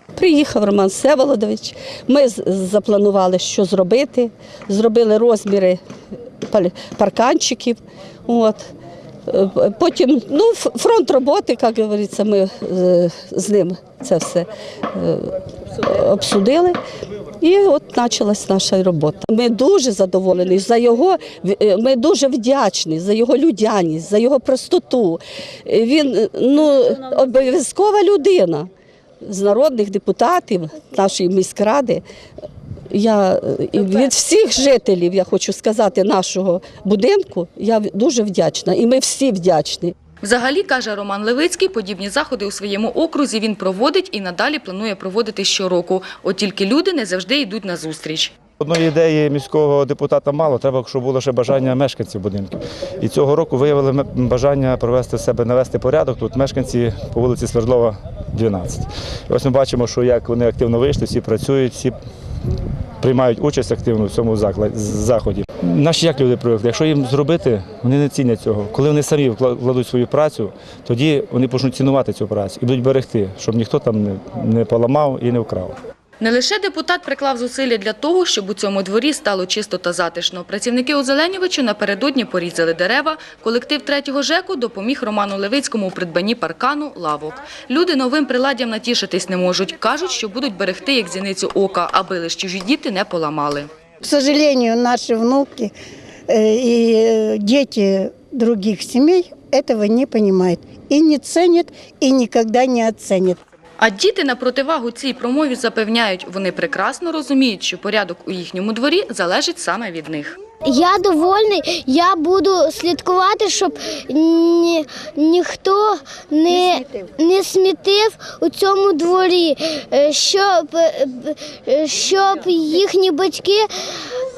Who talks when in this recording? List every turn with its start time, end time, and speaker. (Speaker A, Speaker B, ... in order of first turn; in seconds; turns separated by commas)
Speaker A: 0.1-5.8, Speaker A: 6.5-8.7, Speaker A: 9.3-16.8, Speaker A: 17.4-28.7, Speaker A: 29.2-32.0, Speaker A: 32.9-39.9, Speaker B: 40.2-48.3, Speaker C: 48.6-62.0, Speaker C: 63.0-75.8, Speaker B: 76.2-93.7, Speaker D: 94.0-95.7, Speaker D: 96.3-103.4, Speaker B: 103.8-110.3, Speaker E: 110.7-123.7, Speaker D: 116.5-117.1